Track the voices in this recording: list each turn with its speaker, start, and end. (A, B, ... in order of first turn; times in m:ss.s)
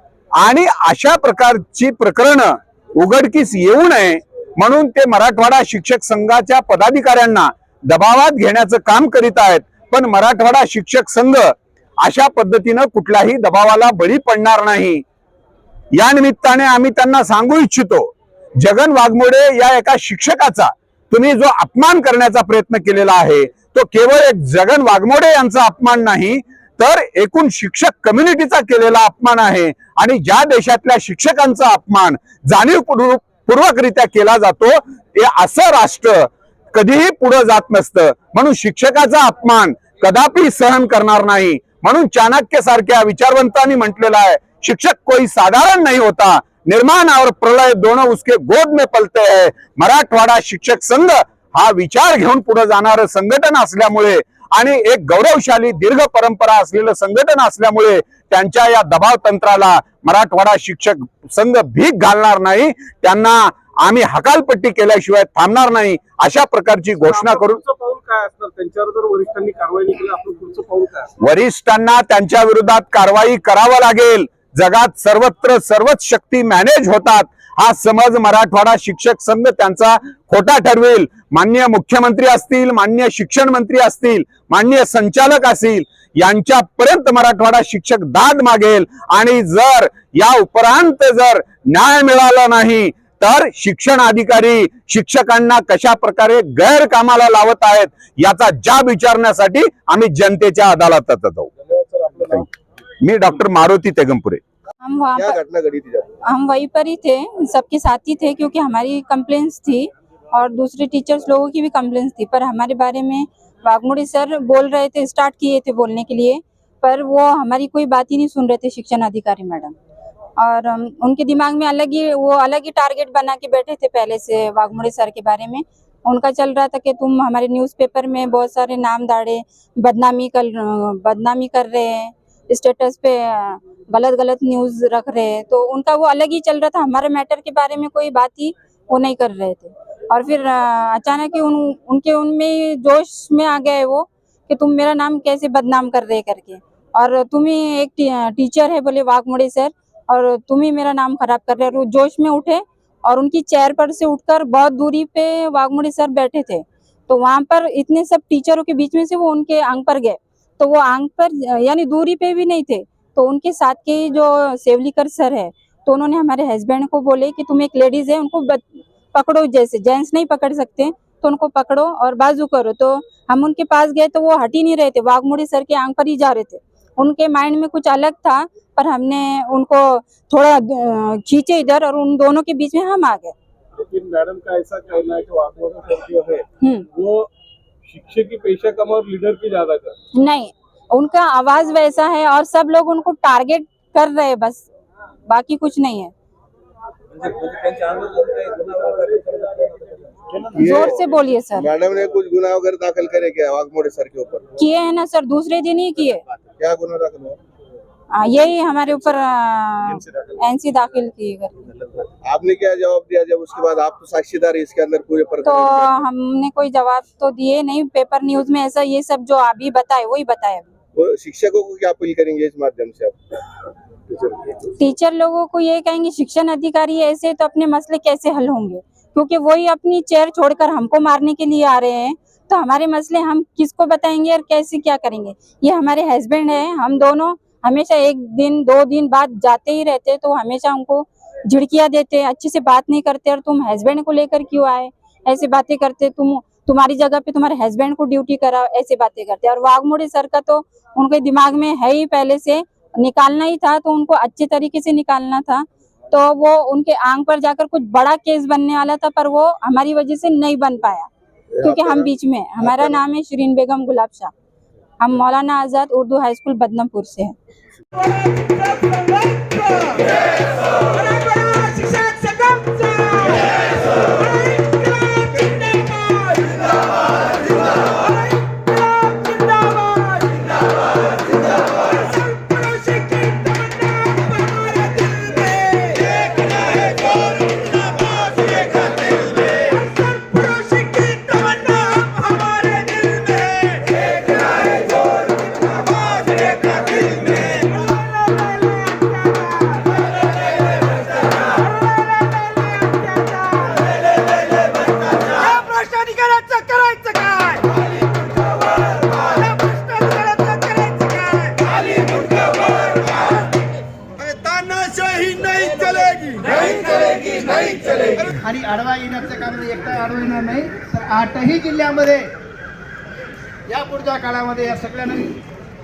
0:00.4-0:15.0 A
0:15.9-1:07.6 A
1:07.1-1:11.1 B
1:11.2-1:41.5 A
1:41.6-1:42.4 C
1:43.0-1:44.4 A
1:44.8-1:45.4 D
1:45.2-1:46.1 C
1:46.2-1:59.7 D
2:00.4-3:03.3 D
3:03.8-3:07.3 B
3:06.6-3:06.8 D
3:07.9-3:09.9 B
3:10.1-3:14.7 D
3:15.2-3:16.1 D
3:17.2-3:19.9 B
3:20.4-3:21.0 C
3:20.6-3:21.7 D
3:21.6-3:24.5 C
3:24.6-3:26.2 D
3:26.6-3:27.4 C
3:28.1-3:31.5 D
3:32.2-3:35.9 C
3:35.4-3:40.7 D
3:41.0-3:43.2 C
3:44.1-3:44.5 C
3:44.8-4:21.1 D
4:21.6-4:24.3 D
4:25.0-4:27.4 D
4:31.2-4:32.4 D
4:51.5-4:53.2 D
5:05.2-5:07.6 E
5:09.2-5:11.6 E
5:14.2-5:16.6 C
5:17.1-5:17.4 E
5:18.0-5:22.3 E
5:23.7-5:25.4 E